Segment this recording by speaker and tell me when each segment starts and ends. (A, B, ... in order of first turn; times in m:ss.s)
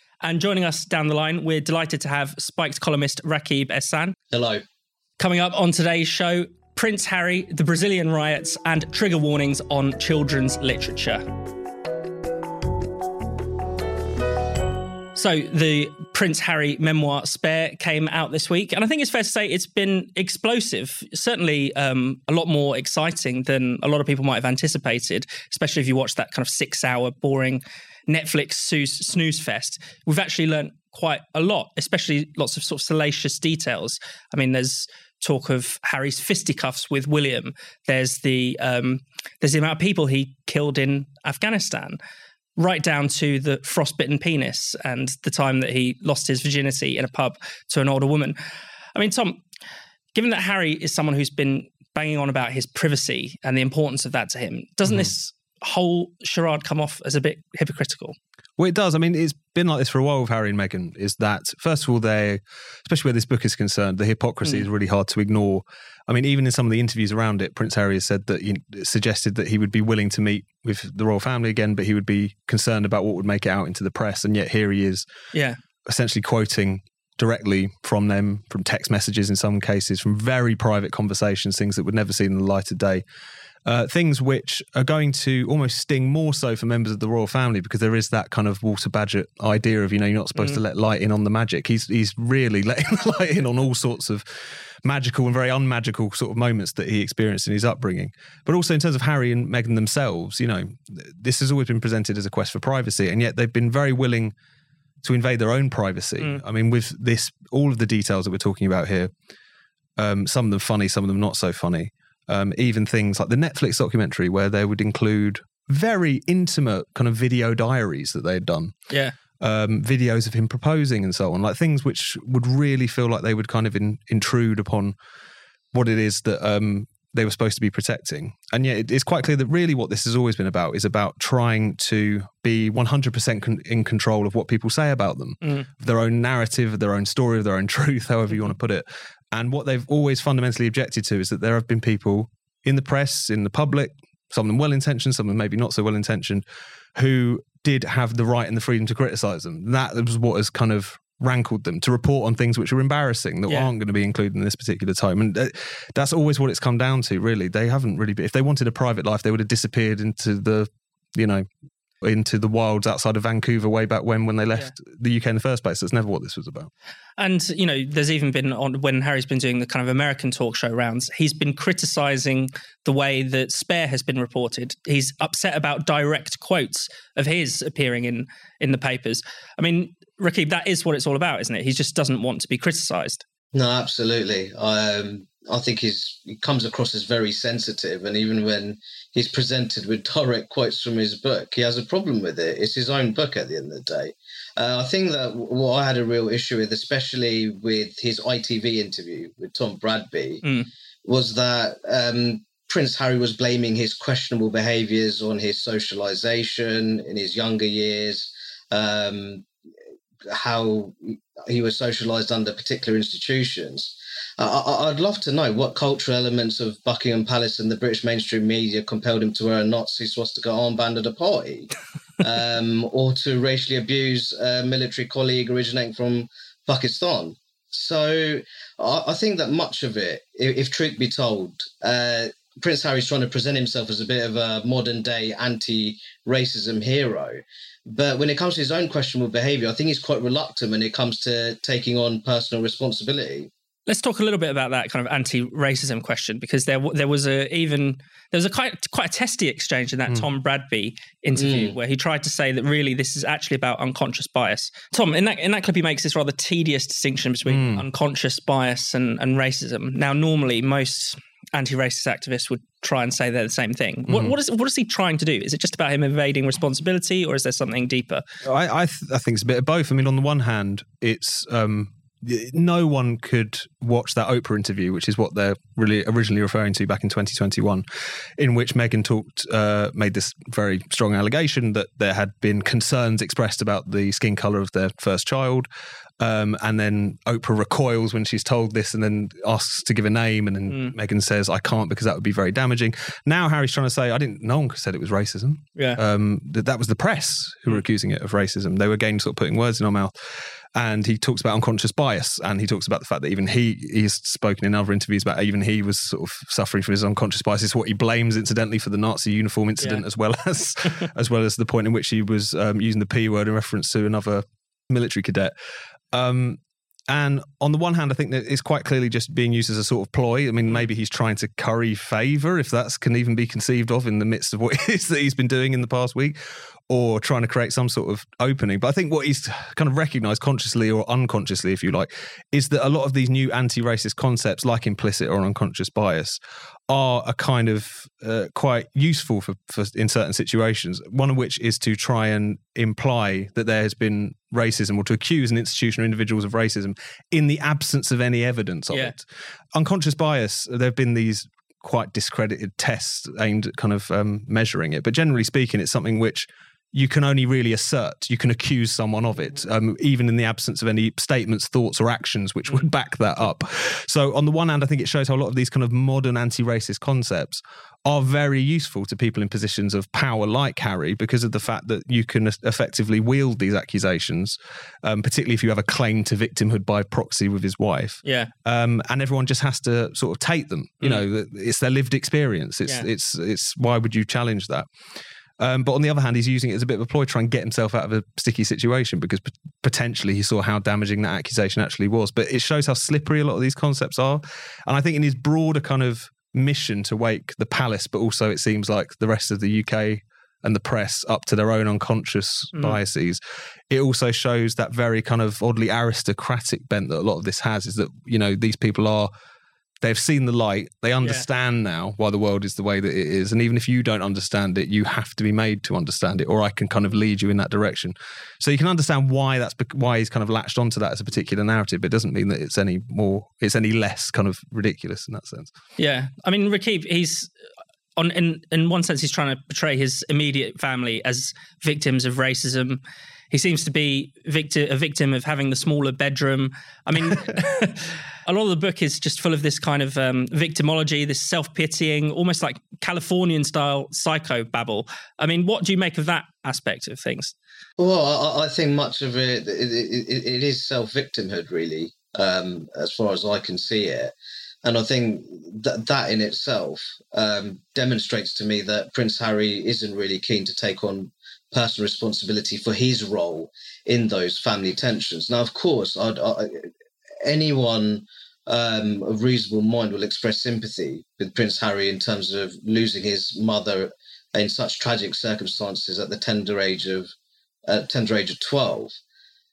0:00.2-0:04.2 A
0:04.3-0:04.6 B
0:05.2-0:11.2 A
0:15.2-0:42.0 A
0:42.6-0:48.4 A
0:49.0-0:49.4 A
0:50.2-0:58.2 A
0:58.6-1:15.0 C
1:15.9-1:23.0 C
1:23.7-1:44.3 C
1:45.0-1:49.1 C
1:50.0-1:58.7 C
1:58.9-1:59.2 A
1:59.4-2:05.0 C
2:05.7-2:26.4 C
2:27.0-2:41.5 C
2:42.0-2:46.7 C
2:47.2-3:03.2 A
3:03.5-3:20.4 B
3:20.4-3:20.7 A
3:21.0-3:29.5 B
3:30.3-4:03.5 B
4:03.9-4:28.2 A
4:11.4-4:11.8 B
4:17.5-4:17.8 C
4:28.4-4:37.8 C
4:38.4-4:45.7 C
4:46.2-5:00.1 C
4:50.7-4:50.9 A
5:00.8-5:15.5 C
5:09.8-5:10.0 A
5:16.1-5:26.4 C
5:26.9-5:36.4 C
5:36.9-6:24.9 C
6:18.2-6:18.5 A
6:25.6-6:49.3 C
6:50.0-7:05.7 C
6:51.2-6:51.5 A
7:06.0-7:07.5 A
7:08.2-7:27.5 A
7:28.0-7:34.3 B
7:34.8-7:46.9 B
7:47.4-7:57.3 B
7:57.9-7:59.1 B